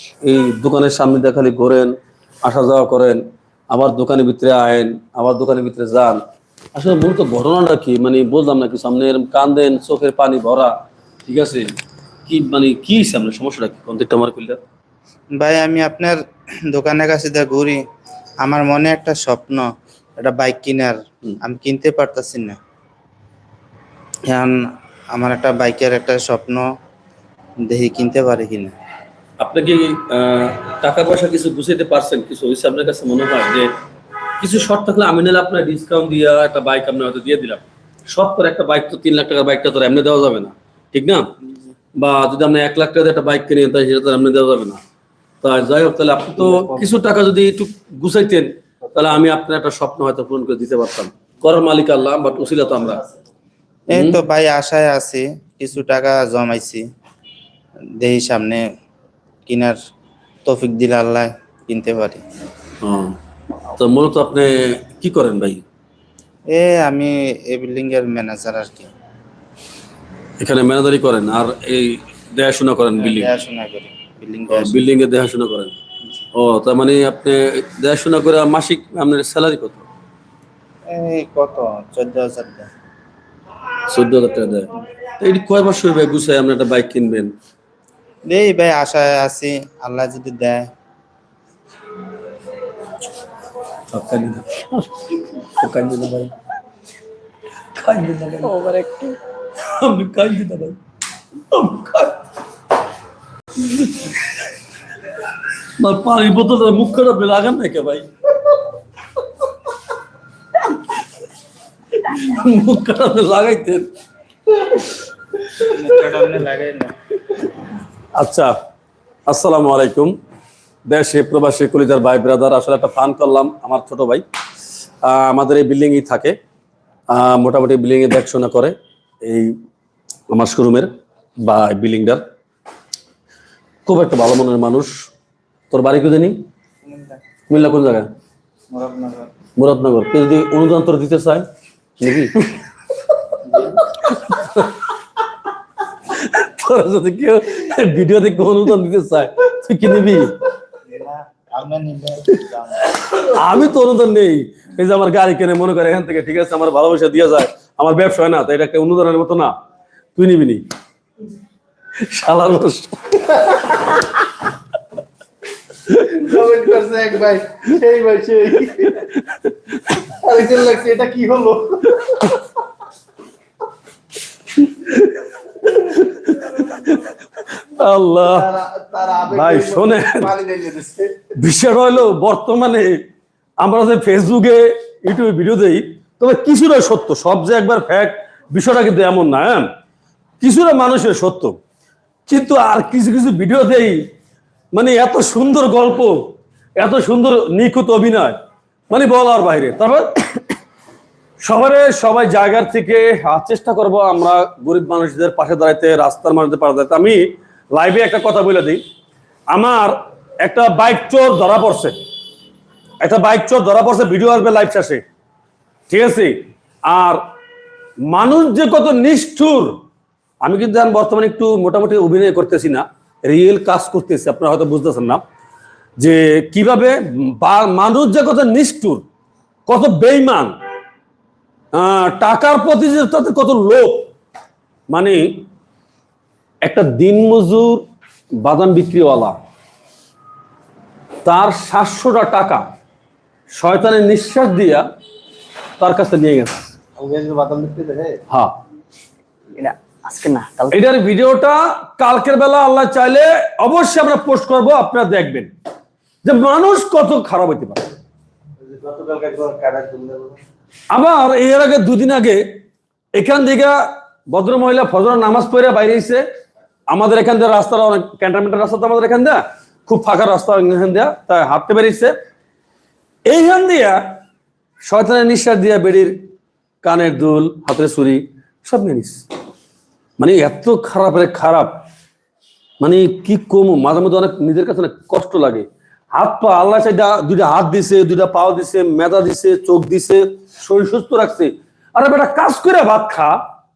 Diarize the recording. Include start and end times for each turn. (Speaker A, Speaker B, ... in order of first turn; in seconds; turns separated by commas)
Speaker A: 0.2-6.2, Speaker A: 6.7-10.7, Speaker A: 11.2-11.7, Speaker A: 12.2-14.6, Speaker B: 15.3-17.8, Speaker B: 18.4-19.6, Speaker B: 20.2-22.6, Speaker B: 24.3-26.7, Speaker B: 27.6-28.7, Speaker A: 29.4-33.7, Speaker A: 34.4-41.3, Speaker A: 42.0-44.8, Speaker A: 45.4-53.0, Speaker C: 46.5-46.8, Speaker B: 53.9-56.8, Speaker A: 53.9-54.2, Speaker B: 58.0-58.6, Speaker B: 59.5-59.8, Speaker B: 60.4-62.2, Speaker A: 62.8-63.1, Speaker A: 63.7-65.6, Speaker B: 66.5-68.9, Speaker A: 70.4-73.3, Speaker B: 73.0-74.8, Speaker A: 74.5-75.8, Speaker A: 76.3-79.8, Speaker B: 80.9-82.7, Speaker A: 83.9-87.3, Speaker B: 88.3-90.7, Speaker A: 93.9-94.9, Speaker A: 95.4-96.3, Speaker A: 97.7-98.6, Speaker D: 98.4-99.2, Speaker A: 99.6-100.8, Speaker A: 101.5-102.2, Speaker A: 103.6-104.1, Speaker A: 105.8-108.1, Speaker A: 112.0-113.9, Speaker B: 115.7-116.9, Speaker A: 118.2-118.5, Speaker A: 119.3-120.1, Speaker A: 120.9-124.2, Speaker A: 125.0-126.3, Speaker A: 127.1-129.5, Speaker A: 130.3-130.9, Speaker A: 131.4-132.2, Speaker A: 133.8-134.9, Speaker A: 135.7-136.4, Speaker B: 136.8-137.2, Speaker A: 137.5-138.1, Speaker B: 138.7-139.3, Speaker A: 139.6-141.5, Speaker A: 142.0-142.4, Speaker A: 143.9-144.7, Speaker A: 146.1-150.3, Speaker B: 150.9-152.9, Speaker A: 152.9-159.5, Speaker A: 160.2-160.6, Speaker A: 162.0-164.2, Speaker A: 165.9-166.2, Speaker C: 166.0-169.0, Speaker A: 168.8-170.0, Speaker C: 170.1-172.3, Speaker A: 174.6-177.0, Speaker A: 177.6-178.5, Speaker C: 178.2-181.1, Speaker A: 179.3-180.3, Speaker A: 181.3-183.0, Speaker A: 183.6-189.7, Speaker A: 190.4-191.6, Speaker A: 192.3-194.0, Speaker A: 194.7-198.4, Speaker A: 198.9-200.2, Speaker A: 201.4-208.8, Speaker A: 209.5-211.9, Speaker A: 213.0-215.0, Speaker A: 215.9-217.2, Speaker A: 218.1-219.8, Speaker A: 220.4-225.2, Speaker A: 226.0-229.0, Speaker A: 229.7-230.5, Speaker A: 231.7-234.1, Speaker A: 234.9-235.4, Speaker A: 236.6-237.8, Speaker A: 238.4-239.3, Speaker A: 241.2-242.6, Speaker A: 243.6-244.9, Speaker A: 245.8-246.7, Speaker C: 247.0-248.2, Speaker D: 249.5-250.7, Speaker A: 250.7-255.5, Speaker A: 256.2-257.9, Speaker C: 258.6-260.4, Speaker A: 260.9-262.4, Speaker A: 263.1-266.2, Speaker A: 266.9-272.1, Speaker A: 273.2-274.0, Speaker A: 274.9-276.2, Speaker A: 276.8-279.2, Speaker A: 280.2-281.8, Speaker A: 282.8-293.4